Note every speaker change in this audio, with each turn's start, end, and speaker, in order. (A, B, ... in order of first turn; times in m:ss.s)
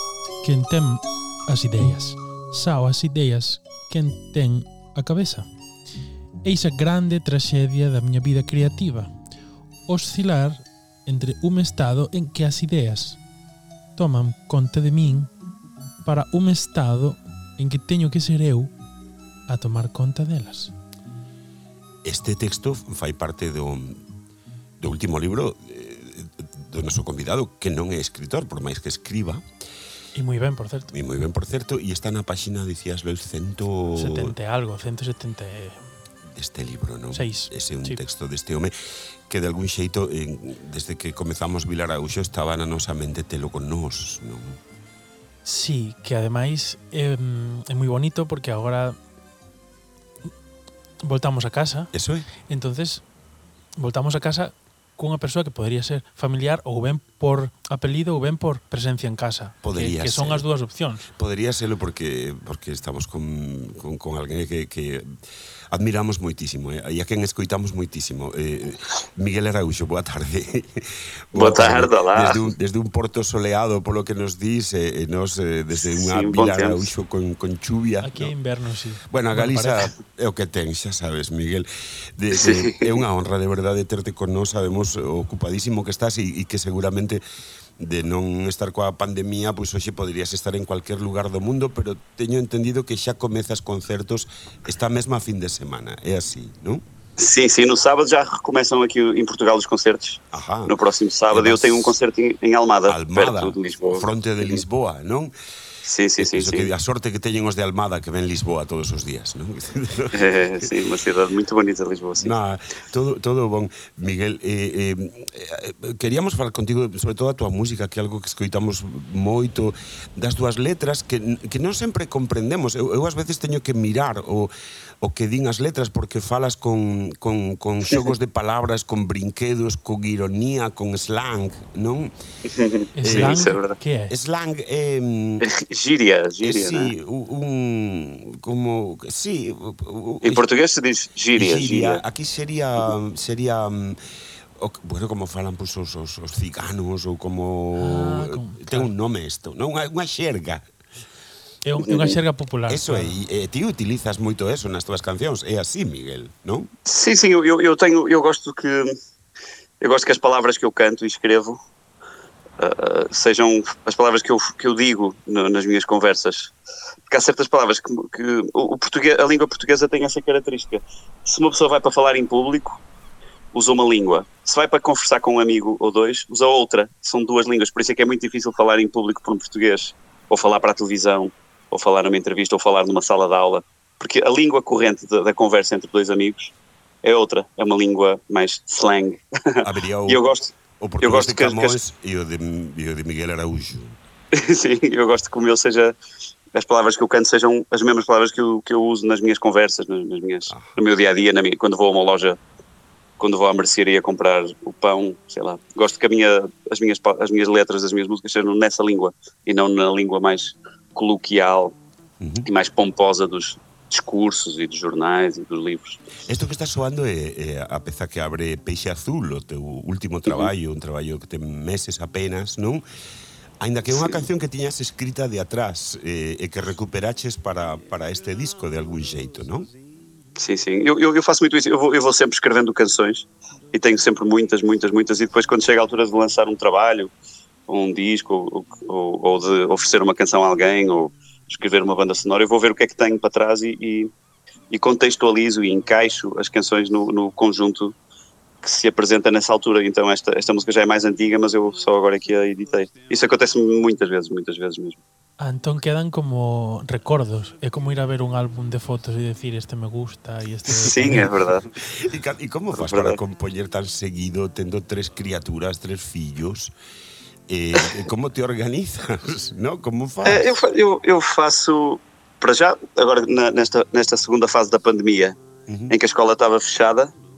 0:00.4-0:05.5 A
0:06.4-0:09.1 A
0:09.9-0:13.2 A
0:14.0-0:15.3 A
0:16.0-0:18.7 A
0:19.5-0:20.7 A
0:22.0-0:24.0 B
0:24.8-0:29.4 B
0:30.1-0:30.9 A
0:30.9-0:34.4 B
0:33.9-0:35.9 A
0:36.2-0:38.7 B
0:37.1-0:38.0 A
0:39.3-0:44.6 B
0:45.4-0:49.0 A
0:51.0-0:51.9 A
0:51.9-0:52.3 B
0:52.5-0:53.0 A
0:53.8-1:01.1 A
0:59.6-1:00.4 B
1:01.1-1:05.2 B
1:05.7-1:18.3 B
1:11.3-1:12.5 C
1:15.8-1:16.9 C
1:18.0-1:19.9 A
1:19.1-1:27.2 B
1:22.3-1:23.0 C
1:27.8-1:36.8 B
1:37.2-1:44.6 C
1:40.3-1:40.8 B
1:41.3-1:42.0 B
1:42.9-1:45.3 B
1:45.8-1:46.7 C
1:46.2-1:50.7 B
1:50.1-1:52.3 C
1:52.2-2:12.1 B
2:12.4-2:13.8 C
2:12.9-2:14.1 A
2:13.0-2:13.5 B
2:14.1-2:15.5 B
2:15.4-2:16.9 C
2:16.4-2:20.4 B
2:20.2-2:22.0 C
2:21.3-2:24.0 B
2:24.6-2:30.6 B
2:27.7-2:28.9 A
2:31.6-2:33.2 A
2:31.8-2:32.2 C
2:32.7-2:36.7 B
2:36.8-2:38.9 C
2:39.8-2:41.6 C
2:42.6-2:46.5 C
2:47.1-2:52.8 C
2:53.5-3:11.8 C
3:09.6-3:10.2 B
3:10.8-3:14.0 B
3:14.3-3:16.0 C
3:16.5-3:22.4 C
3:20.5-3:20.8 B
3:23.2-3:31.7 C
3:32.2-3:32.5 B
3:32.4-3:36.0 C
3:36.2-3:42.8 B
3:43.6-3:49.7 B
3:43.9-3:44.2 C
3:50.4-3:57.1 C
3:57.7-4:04.1 C
4:04.7-4:07.9 C
4:08.6-4:15.0 C
4:15.4-4:21.3 A
4:20.8-4:21.7 C
4:21.8-4:26.7 B
4:22.7-4:23.2 C
4:27.5-4:30.5 B
4:30.2-4:35.4 C
4:35.7-4:35.9 B
4:35.9-4:37.1 C